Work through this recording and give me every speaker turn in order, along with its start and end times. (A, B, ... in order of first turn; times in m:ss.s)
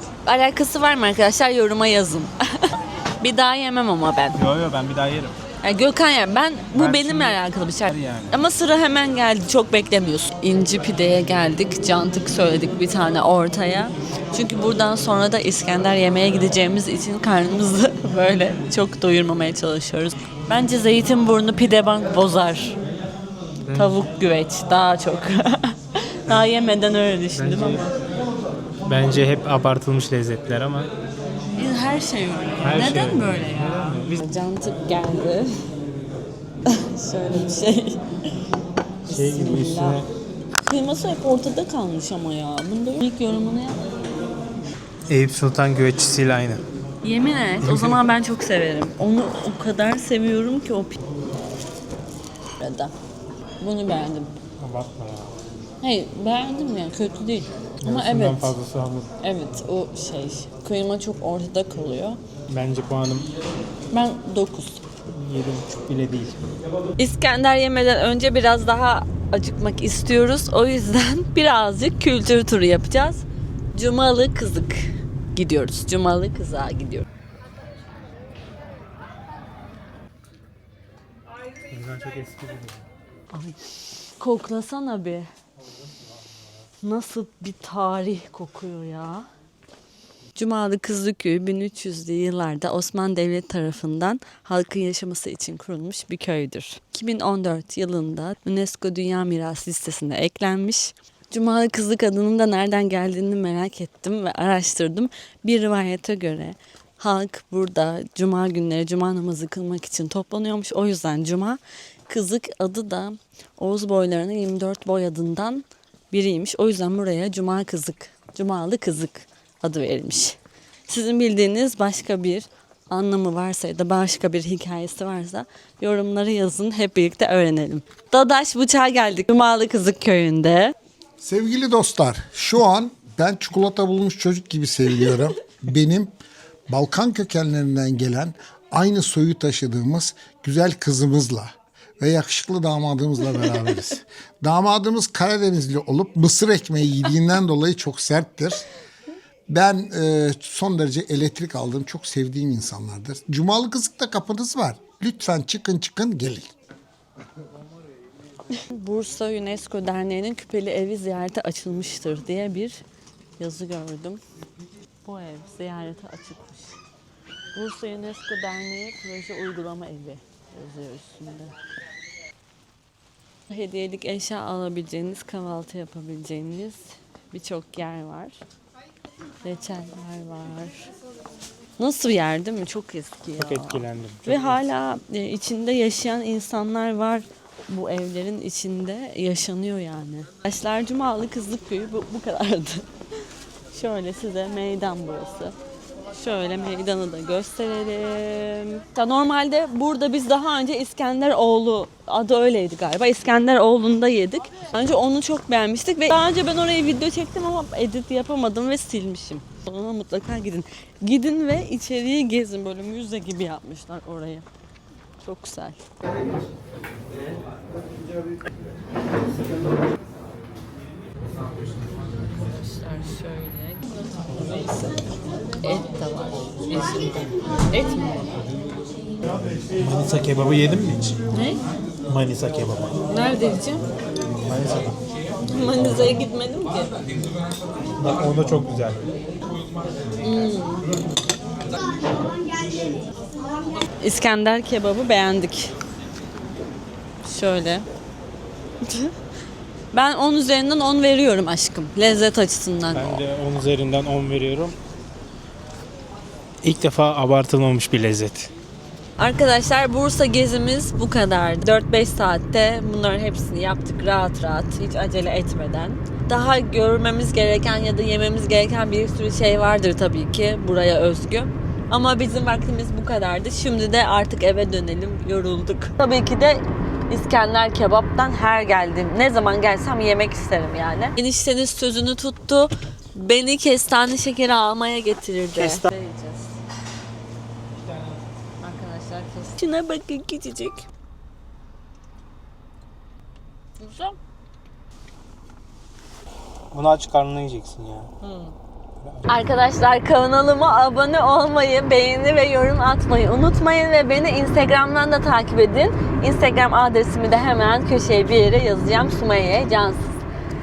0:00.2-0:04.4 A
0:04.3-0:05.4 B
0:05.6-0:22.8 A
0:06.7-0:08.4 B
0:23.7-0:24.0 B
0:23.7-0:28.0 A
0:27.3-0:27.8 B
0:28.8-0:30.9 B
0:31.6-0:35.6 A
0:32.6-0:34.2 B
0:36.7-0:38.0 A
0:39.1-0:40.0 A
0:39.1-0:40.1 B
0:40.6-0:43.8 A
0:45.1-0:46.6 B
0:47.0-0:51.0 A
0:47.6-0:48.0 B
0:52.6-0:52.9 A
0:53.6-0:54.3 A
0:54.6-0:55.4 B
0:55.8-0:58.5 A
0:57.8-0:59.1 B
0:59.2-1:02.2 A
1:02.5-1:03.3 B
1:03.9-1:04.8 A
1:05.1-1:06.4 B
1:07.0-1:17.1 A
1:21.7-1:22.8 B
1:23.3-1:25.3 A
1:26.8-1:29.3 A
1:30.4-2:10.7 A
2:11.2-2:16.1 C
2:16.7-2:28.7 C
2:29.5-2:36.5 C
2:38.5-2:42.8 A
2:43.4-2:44.2 A
2:45.0-2:46.8 A
2:47.5-2:51.6 A
2:53.5-2:58.4 A
2:59.4-3:00.9 A
3:01.8-3:12.9 A
3:03.4-3:04.6 B
3:13.7-3:15.6 A
3:16.1-3:34.5 A
3:35.2-3:35.9 A
3:42.3-3:45.0 A
3:45.6-3:48.3 A
3:49.8-3:51.2 B
3:51.3-3:51.6 A
3:52.1-3:53.0 B
3:53.1-3:53.8 A
3:54.4-3:55.0 B
3:55.4-3:57.0 A
3:58.0-3:59.1 B
4:00.2-4:00.9 A
4:04.0-4:05.7 A
4:07.2-4:07.9 A
4:08.8-4:09.1 A
4:09.9-4:13.2 A
4:12.9-4:14.8 B
4:16.6-4:18.5 B
4:19.2-4:46.6 A
4:45.6-4:45.9 B
4:48.6-4:50.9 A
4:53.8-4:54.2 A
4:56.7-4:58.1 B
4:58.2-4:58.5 A
4:59.0-4:59.3 B
4:59.3-5:10.2 A